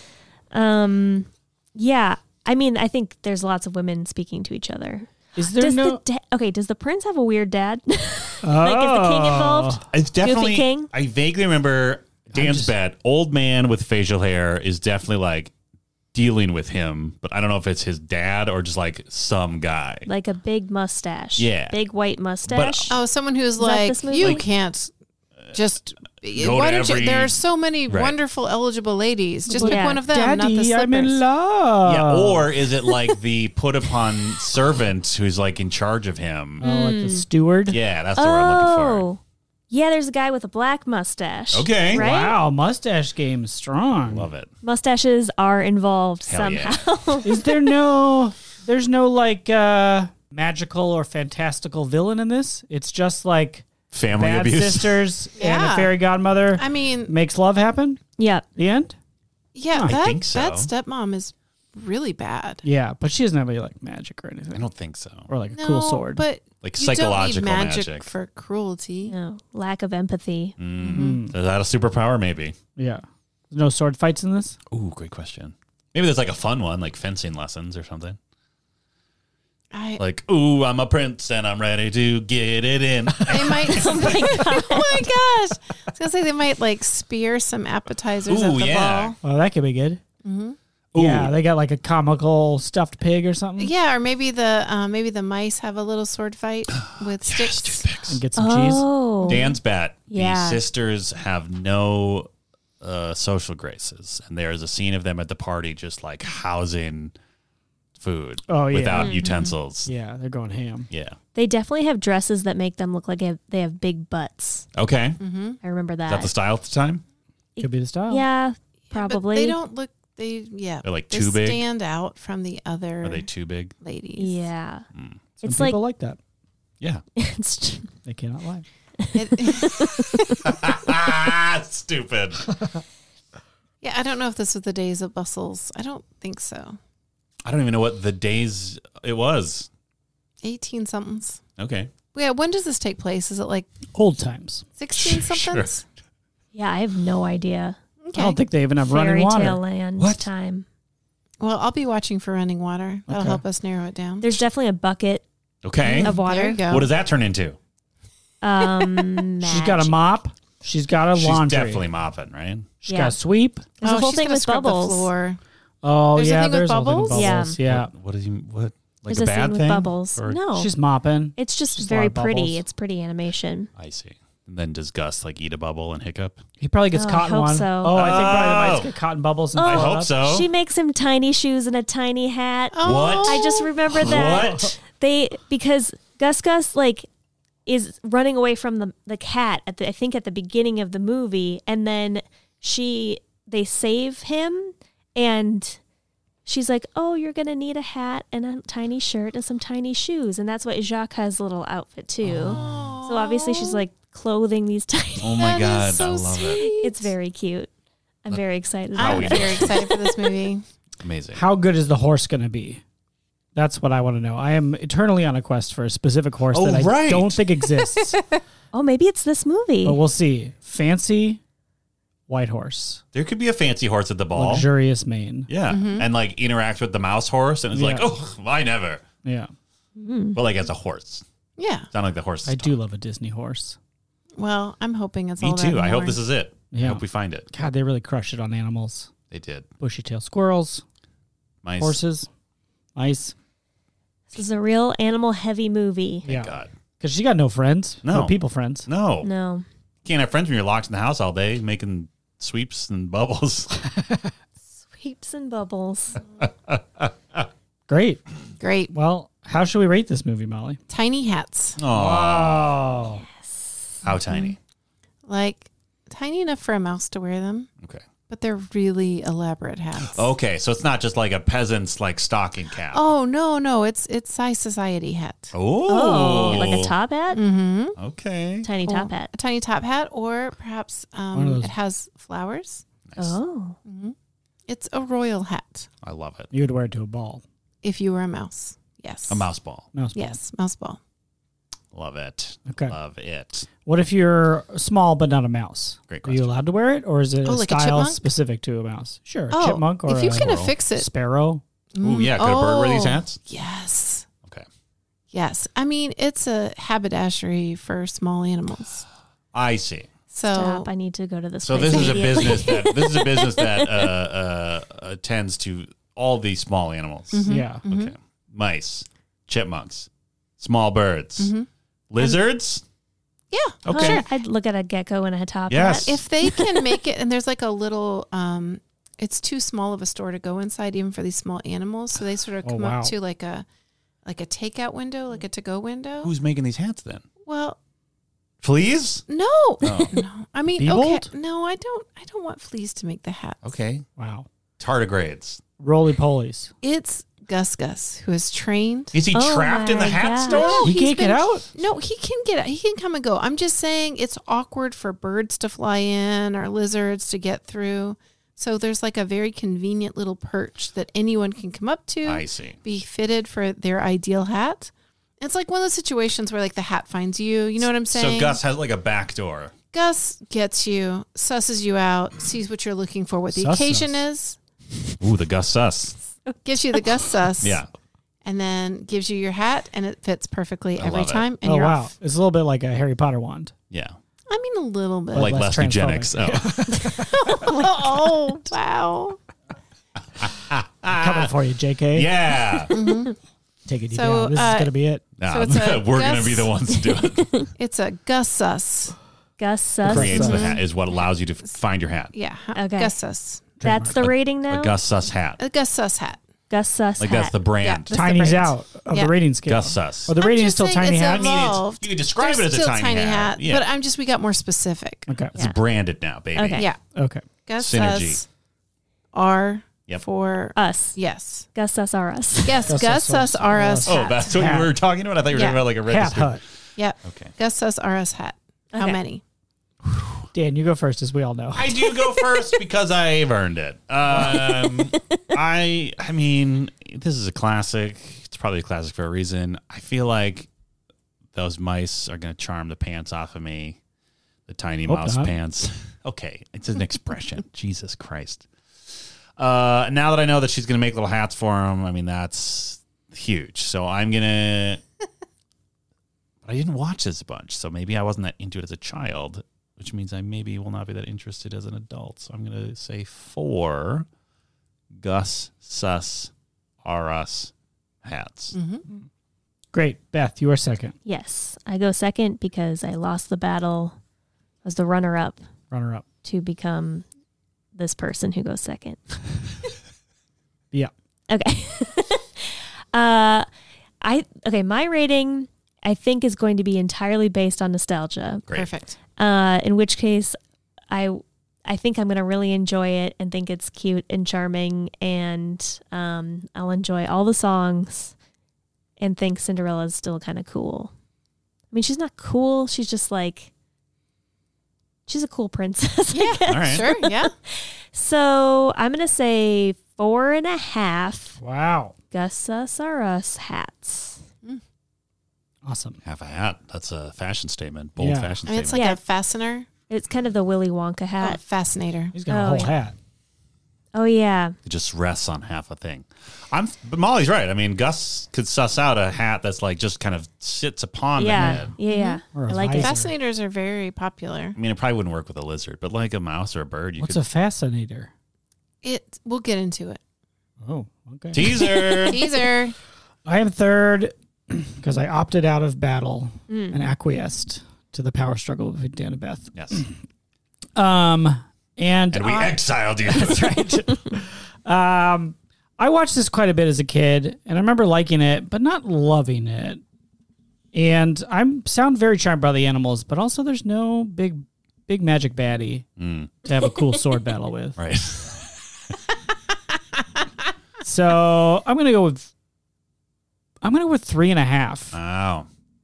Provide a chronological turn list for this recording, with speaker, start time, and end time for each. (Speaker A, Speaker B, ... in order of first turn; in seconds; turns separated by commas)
Speaker A: 0.5-10.9, Speaker B: 5.4-6.0, Speaker B: 8.4-9.8, Speaker C: 9.9-15.5, Speaker B: 12.3-12.7, Speaker C: 16.1-20.1, Speaker A: 20.1-23.0, Speaker C: 21.4-21.8, Speaker C: 22.4-22.9, Speaker D: 22.9-24.9, Speaker A: 23.6-24.4, Speaker D: 25.5-31.2, Speaker C: 26.3-28.1, Speaker B: 29.5-32.5, Speaker A: 29.6-30.0, Speaker C: 31.8-36.6, Speaker B: 36.6-37.8, Speaker A: 36.6-37.2, Speaker C: 37.7-39.0, Speaker A: 38.1-42.4, Speaker C: 41.5-42.1, Speaker B: 41.9-44.3, Speaker C: 44.1-44.5, Speaker A: 44.6-47.5, Speaker C: 46.3-46.8, Speaker B: 47.2-58.0, Speaker C: 53.9-55.0, Speaker D: 55.4-56.0, Speaker D: 56.5-57.1, Speaker A: 58.2-58.5, Speaker B: 58.6-58.9, Speaker D: 59.5-62.6, Speaker C: 59.8-60.7, Speaker B: 62.6-64.7, Speaker C: 64.5-65.3, Speaker B: 65.3-66.2, Speaker D: 65.5-69.1, Speaker C: 66.6-68.1, Speaker A: 69.1-70.5, Speaker C: 70.6-72.5, Speaker D: 70.8-71.2, Speaker B: 70.9-71.3, Speaker B: 72.8-74.6, Speaker C: 74.7-78.2, Speaker D: 79.7-80.0, Speaker C: 80.0-84.1, Speaker B: 83.1-83.6, Speaker D: 83.3-89.2, Speaker A: 83.7-85.1, Speaker C: 88.3-89.2, Speaker B: 89.2-90.0, Speaker D: 90.2-90.6, Speaker C: 90.9-91.3, Speaker B: 90.9-93.7, Speaker D: 93.6-97.9, Speaker C: 96.8-98.2, Speaker B: 98.1-98.9, Speaker A: 98.4-99.5, Speaker D: 99.2-99.5, Speaker C: 99.2-107.1, Speaker A: 100.1-100.6, Speaker C: 108.0-109.9, Speaker B: 108.5-109.1, Speaker A: 108.9-109.3, Speaker D: 109.1-109.5, Speaker B: 109.8-110.9, Speaker C: 110.9-111.2, Speaker A: 111.3-114.7, Speaker C: 114.7-115.2, Speaker D: 115.2-115.6, Speaker A: 115.6-116.3, Speaker C: 116.1-117.0, Speaker A: 117.5-119.6, Speaker B: 117.6-118.2, Speaker D: 118.9-123.3, Speaker C: 120.8-121.6, Speaker C: 123.0-123.7, Speaker D: 123.8-124.5, Speaker A: 124.2-124.8, Speaker C: 124.9-125.2, Speaker A: 125.4-125.8, Speaker B: 125.4-126.2, Speaker A: 127.2-127.9, Speaker B: 128.1-128.6, Speaker A: 129.0-130.4, Speaker D: 129.1-130.4, Speaker C: 130.4-132.5, Speaker D: 133.8-136.8, Speaker C: 137.4-139.7, Speaker D: 140.4-141.4, Speaker C: 141.6-141.9, Speaker D: 142.1-143.7, Speaker B: 143.9-144.6, Speaker D: 144.8-145.8, Speaker C: 144.9-145.7, Speaker A: 146.5-147.8, Speaker D: 148.0-148.4, Speaker B: 148.1-149.6, Speaker A: 148.9-150.6, Speaker C: 150.0-150.3, Speaker D: 151.4-154.3, Speaker B: 153.1-153.4, Speaker A: 154.2-155.2, Speaker C: 155.6-156.1, Speaker D: 155.8-156.9, Speaker A: 155.8-156.6, Speaker C: 156.7-157.6, Speaker A: 158.4-159.9, Speaker B: 159.4-161.8, Speaker C: 161.1-162.7, Speaker B: 162.8-163.7, Speaker A: 162.8-163.2, Speaker A: 163.8-165.1, Speaker D: 163.8-165.4, Speaker B: 165.8-167.9, Speaker D: 166.1-167.3, Speaker A: 167.1-167.6, Speaker C: 167.6-170.4, Speaker A: 169.1-170.7, Speaker B: 170.5-172.6, Speaker A: 171.4-173.7, Speaker C: 173.8-176.4, Speaker B: 176.6-180.1, Speaker A: 176.9-178.1, Speaker C: 177.9-178.9, Speaker A: 179.6-187.1, Speaker C: 179.6-180.5, Speaker D: 182.7-183.7, Speaker C: 182.8-184.8, Speaker A: 187.7-195.8, Speaker A: 196.4-205.4, Speaker C: 202.3-202.9, Speaker D: 202.4-203.8, Speaker C: 205.2-206.7, Speaker D: 205.3-207.1, Speaker A: 206.5-207.7, Speaker A: 208.2-210.3, Speaker C: 208.9-209.8, Speaker D: 208.9-210.6, Speaker C: 211.0-211.4, Speaker B: 211.3-212.8, Speaker B: 213.5-218.2, Speaker C: 216.5-217.4, Speaker D: 218.0-218.4, Speaker A: 218.7-220.0, Speaker B: 219.8-221.4, Speaker B: 222.3-223.0, Speaker C: 223.1-224.7, Speaker B: 224.3-225.5, Speaker C: 225.5-229.0, Speaker D: 225.7-226.1, Speaker B: 227.7-228.1, Speaker B: 229.2-229.5, Speaker A: 230.0-230.4, Speaker C: 230.3-231.2, Speaker D: 231.6-231.9, Speaker C: 231.9-232.7, Speaker B: 232.4-233.8, Speaker D: 234.4-236.2, Speaker C: 235.4-237.5, Speaker B: 236.7-239.1, Speaker C: 239.3-239.7, Speaker B: 239.8-240.8, Speaker C: 241.6-242.0, Speaker B: 241.8-242.3, Speaker B: 242.9-243.3, Speaker A: 244.3-246.3, Speaker B: 246.2-248.9, Speaker C: 246.2-246.7, Speaker C: 248.0-249.3, Speaker A: 249.2-249.6, Speaker C: 250.0-253.7, Speaker B: 253.9-254.2, Speaker A: 254.8-256.2, Speaker C: 256.4-257.4, Speaker B: 257.9-258.2, Speaker D: 258.6-258.9, Speaker B: 258.9-260.8, Speaker D: 260.9-261.8, Speaker C: 261.8-263.0, Speaker B: 261.9-263.2, Speaker A: 263.4-264.5, Speaker C: 264.0-264.6, Speaker D: 265.2-267.7, Speaker D: 268.3-270.3, Speaker C: 270.0-273.0, Speaker D: 272.9-275.5, Speaker C: 275.5-276.9, Speaker A: 275.9-277.4, Speaker D: 277.3-278.0, Speaker C: 278.0-278.7, Speaker A: 278.6-279.3, Speaker D: 278.8-282.8, Speaker B: 281.3-281.7, Speaker C: 283.1-283.4, Speaker A: 283.2-283.8, Speaker D: 283.9-284.1, Speaker D: 284.7-285.9, Speaker C: 286.0-286.5, Speaker B: 286.5-287.4, Speaker D: 287.8-289.5, Speaker C: 289.3-289.9, Speaker B: 289.9-290.4, Speaker D: 290.1-291.0, Speaker C: 291.9-293.7, Speaker B: 292.7-292.9, Speaker B: 293.9-301.6, Speaker C: 296.1-296.6, Speaker D: 297.4-298.2, Speaker D: 299.5-301.1, Speaker C: 300.3-300.7, Speaker D: 301.9-304.3, Speaker C: 302.0-303.4, Speaker D: 305.3-309.1, Speaker C: 309.5-310.1, Speaker D: 310.3-310.9, Speaker A: 310.5-314.1, Speaker C: 311.6-320.1, Speaker D: 311.9-312.6, Speaker D: 317.3-318.1, Speaker B: 317.5-317.8, Speaker C: 320.6-321.5, Speaker D: 321.4-321.7, Speaker C: 322.1-322.8, Speaker D: 323.5-324.3, Speaker C: 323.9-324.2, Speaker A: 323.9-326.7, Speaker C: 325.7-326.2, Speaker D: 326.0-333.6, Speaker B: 332.6-333.1, Speaker D: 334.2-336.3, Speaker C: 336.2-337.2, Speaker D: 337.4-337.8, Speaker C: 338.6-339.2, Speaker D: 339.3-343.6, Speaker C: 339.8-340.2, Speaker B: 340.8-341.3, Speaker C: 343.6-344.1, Speaker B: 344.2-344.4, Speaker C: 344.8-345.6, Speaker B: 345.8-346.7, Speaker D: 346.8-349.1, Speaker C: 349.1-350.9, Speaker A: 349.3-350.8, Speaker D: 350.5-368.6, Speaker B: 350.5-351.6, Speaker C: 362.2-362.8, Speaker C: 368.0-369.7, Speaker D: 369.9-374.6, Speaker B: 373.5-374.2, Speaker C: 375.2-376.2, Speaker D: 376.6-377.8, Speaker C: 377.6-377.9, Speaker D: 378.4-382.1, Speaker C: 381.0-381.4, Speaker B: 381.6-383.7, Speaker C: 383.9-384.1, Speaker D: 384.5-385.6, Speaker C: 385.3-387.0, Speaker B: 385.4-387.3, Speaker D: 387.1-389.4, Speaker C: 390.4-391.5, Speaker B: 391.1-392.3, Speaker C: 392.1-392.9, Speaker D: 392.9-393.3, Speaker B: 393.9-395.2, Speaker D: 394.1-396.7, Speaker C: 395.4-397.5, Speaker A: 397.2-397.7, Speaker D: 397.8-399.1, Speaker A: 399.6-400.8, Speaker C: 400.0-402.3, Speaker B: 400.1-400.7, Speaker D: 400.4-400.8, Speaker D: 402.3-403.7, Speaker A: 402.8-403.1, Speaker A: 403.8-404.9, Speaker B: 403.8-404.2, Speaker C: 404.1-405.6, Speaker D: 405.6-406.4, Speaker A: 406.7-407.5, Speaker C: 407.2-408.1, Speaker D: 407.8-409.3, Speaker B: 408.1-411.8, Speaker C: 409.6-410.3, Speaker D: 410.3-415.3, Speaker C: 411.3-413.9, Speaker B: 415.3-415.5, Speaker C: 415.5-416.9, Speaker A: 416.5-416.9, Speaker B: 417.1-417.4, Speaker D: 417.6-418.4, Speaker C: 417.8-418.4, Speaker D: 419.3-421.7, Speaker A: 420.8-421.2, Speaker A: 421.7-422.8, Speaker D: 422.6-424.5, Speaker B: 422.9-424.9, Speaker C: 424.0-426.6, Speaker D: 425.5-425.8, Speaker B: 426.1-426.6, Speaker D: 427.0-429.4, Speaker C: 427.2-427.5, Speaker A: 428.9-429.2, Speaker C: 430.0-430.4, Speaker B: 430.5-432.0, Speaker C: 431.7-440.7, Speaker A: 434.8-435.4, Speaker C: 441.5-444.0, Speaker C: 444.7-448.7, Speaker B: 445.1-445.5, Speaker C: 449.6-455.0, Speaker C: 456.6-464.3, Speaker C: 465.1-466.5, Speaker C: 467.0-467.7, Speaker C: 468.2-468.7, Speaker D: 468.7-469.0, Speaker B: 469.9-471.1, Speaker A: 471.2-474.1, Speaker A: 474.8-475.6, Speaker B: 475.9-476.2, Speaker A: 476.4-477.2, Speaker A: 477.9-479.4, Speaker A: 481.5-483.7, Speaker A: 484.2-488.6, Speaker D: 488.7-489.2, Speaker A: 489.4-490.6, Speaker A: 491.1-498.3, Speaker A: 499.2-501.1, Speaker A: 501.9-503.7, Speaker A: 505.3-511.6, Speaker D: 506.3-507.5, Speaker C: 506.7-507.1, Speaker B: 511.6-512.1, Speaker A: 512.3-514.4, Speaker B: 515.8-516.2, Speaker C: 516.2-519.0, Speaker B: 518.2-518.5, Speaker D: 518.6-519.9, Speaker A: 518.9-519.2, Speaker A: 520.1-521.6, Speaker D: 521.4-522.3, Speaker B: 522.3-523.1, Speaker A: 522.5-522.9, Speaker A: 524.1-524.8, Speaker C: 524.9-531.9, Speaker A: 531.4-533.1, Speaker B: 531.5-531.9, Speaker D: 532.1-534.8, Speaker B: 532.5-533.3, Speaker C: 534.8-537.4, Speaker B: 537.2-538.3, Speaker D: 539.0-540.2, Speaker B: 540.8-542.3, Speaker C: 541.5-542.5, Speaker D: 542.2-542.9, Speaker B: 543.5-550.1, Speaker A: 546.7-547.0, Speaker C: 549.7-550.0, Speaker B: 551.0-560.0, Speaker C: 552.3-553.8, Speaker B: 560.9-566.0, Speaker C: 566.2-566.5, Speaker B: 566.6-568.0, Speaker C: 568.0-568.7, Speaker B: 571.0-572.5, Speaker B: 573.8-575.2, Speaker C: 575.1-575.7